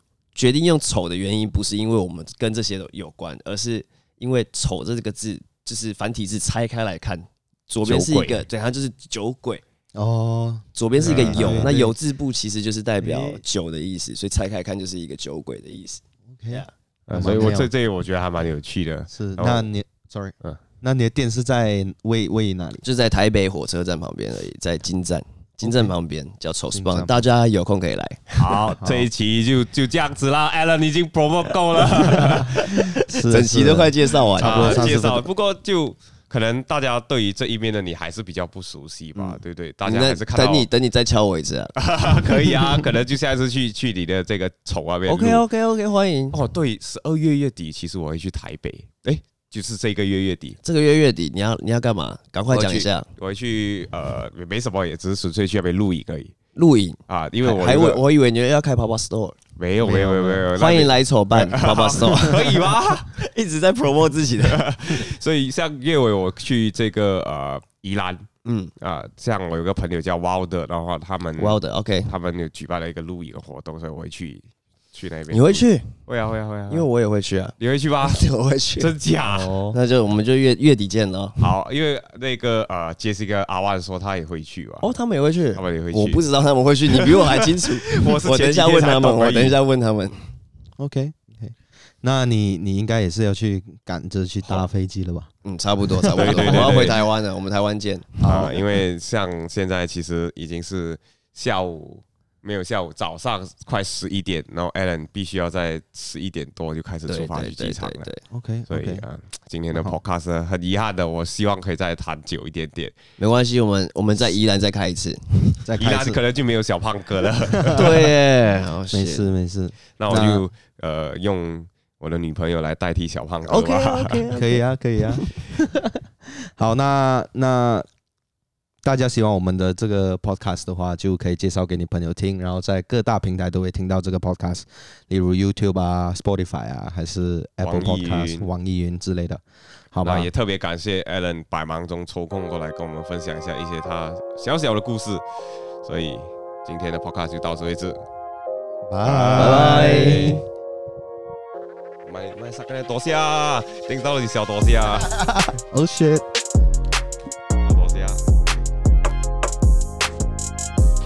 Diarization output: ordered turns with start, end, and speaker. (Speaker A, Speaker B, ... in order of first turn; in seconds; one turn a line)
Speaker A: 0.3-9.6
Speaker B: 7.8-8.5
Speaker C: 9.9-11.9
Speaker A: 10.8-16.7
Speaker B: 11.0-11.8
Speaker C: 13.0-13.4
Speaker C: 16.4-17.7
Speaker B: 17.1-19.7
Speaker C: 19.1-22.8
Speaker A: 22.8-28.5
Speaker C: 26.7-27.2
Speaker B: 28.4-33.0
Speaker C: 28.8-29.1
Speaker C: 32.1-35.3
Speaker A: 33.3-35.0
Speaker B: 34.4-40.7
Speaker A: 39.1-42.9
Speaker B: 41.8-45.4
Speaker A: 45.1-46.4
Speaker B: 46.3-50.6
Speaker A: 50.6-53.1
Speaker B: 52.5-56.3
Speaker A: 56.5-64.7
Speaker B: 57.1-58.0
Speaker B: 59.6-63.1
Speaker C: 59.9-60.4
Speaker B: 64.4-68.3
Speaker A: 68.5-68.7
Speaker B: 68.8-76.9
Speaker A: 71.4-72.1
Speaker A: 75.3-75.9
Speaker A: 76.7-78.9
Speaker B: 77.6-78.2
Speaker B: 78.8-79.6
Speaker C: 79.2-79.8
Speaker A: 79.7-81.5
Speaker B: 81.4-85.0
Speaker A: 84.8-90.2
Speaker B: 85.5-86.2
Speaker B: 86.9-89.6
Speaker C: 90.8-95.3
Speaker A: 95.4-98.6
Speaker C: 96.0-96.8
Speaker B: 96.2-97.0
Speaker B: 98.2-108.1
Speaker C: 98.2-98.5
Speaker A: 107.1-108.2
Speaker C: 108.3-109.0
Speaker B: 108.7-113.0
Speaker A: 113.2-115.6
Speaker C: 115.7-116.2
Speaker B: 115.8-118.1
Speaker C: 117.6-117.8
Speaker A: 117.7-119.3
Speaker C: 118.9-120.4
Speaker B: 120.0-124.2
Speaker A: 123.5-125.3
Speaker C: 124.3-127.9
Speaker C: 128.8-140.3
Speaker B: 137.6-138.5
Speaker B: 140.0-145.2
Speaker B: 145.8-148.0
Speaker C: 148.9-150.3
Speaker B: 149.0-150.4
Speaker A: 149.4-150.4
Speaker B: 152.1-155.2
Speaker C: 155.1-156.2
Speaker B: 157.6-158.2